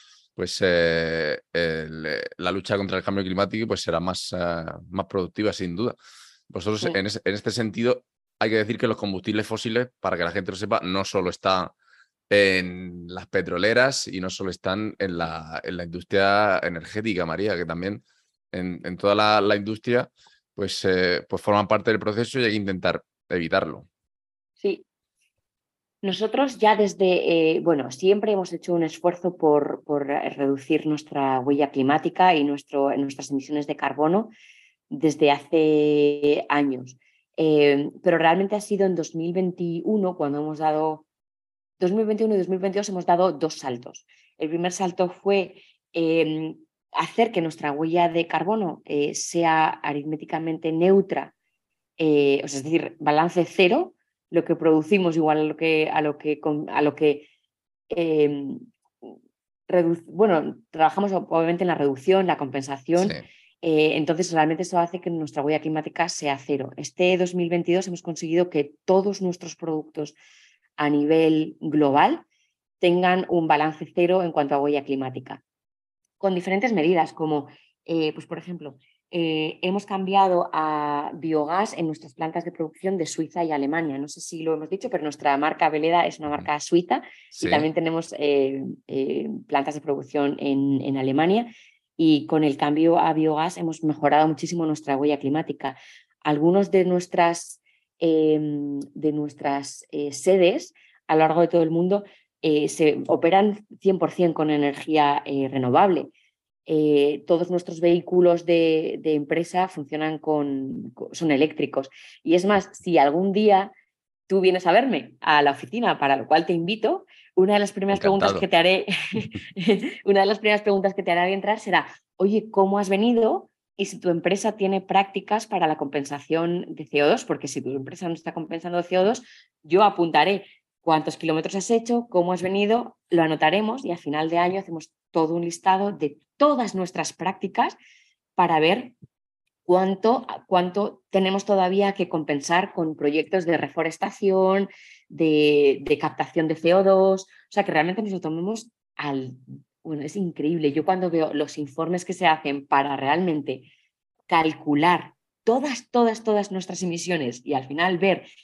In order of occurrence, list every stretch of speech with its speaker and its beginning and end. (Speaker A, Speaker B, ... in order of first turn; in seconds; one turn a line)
Speaker A: 0.3-5.9
Speaker A: 6.5-11.7
Speaker A: 12.3-23.9
Speaker B: 26.0-34.3
Speaker B: 34.9-41.0
Speaker B: 41.8-51.3
Speaker B: 52.0-57.3
Speaker B: 57.9-59.1
Speaker B: 59.7-70.1
Speaker A: 63.0-63.2
Speaker B: 70.8-72.2
Speaker B: 72.8-75.4
Speaker B: 76.2-106.1
Speaker A: 87.3-87.7
Speaker B: 106.7-113.7
Speaker B: 114.3-137.7
Speaker A: 117.9-118.4
Speaker B: 138.3-138.9
Speaker B: 139.7-153.7
Speaker B: 154.3-158.2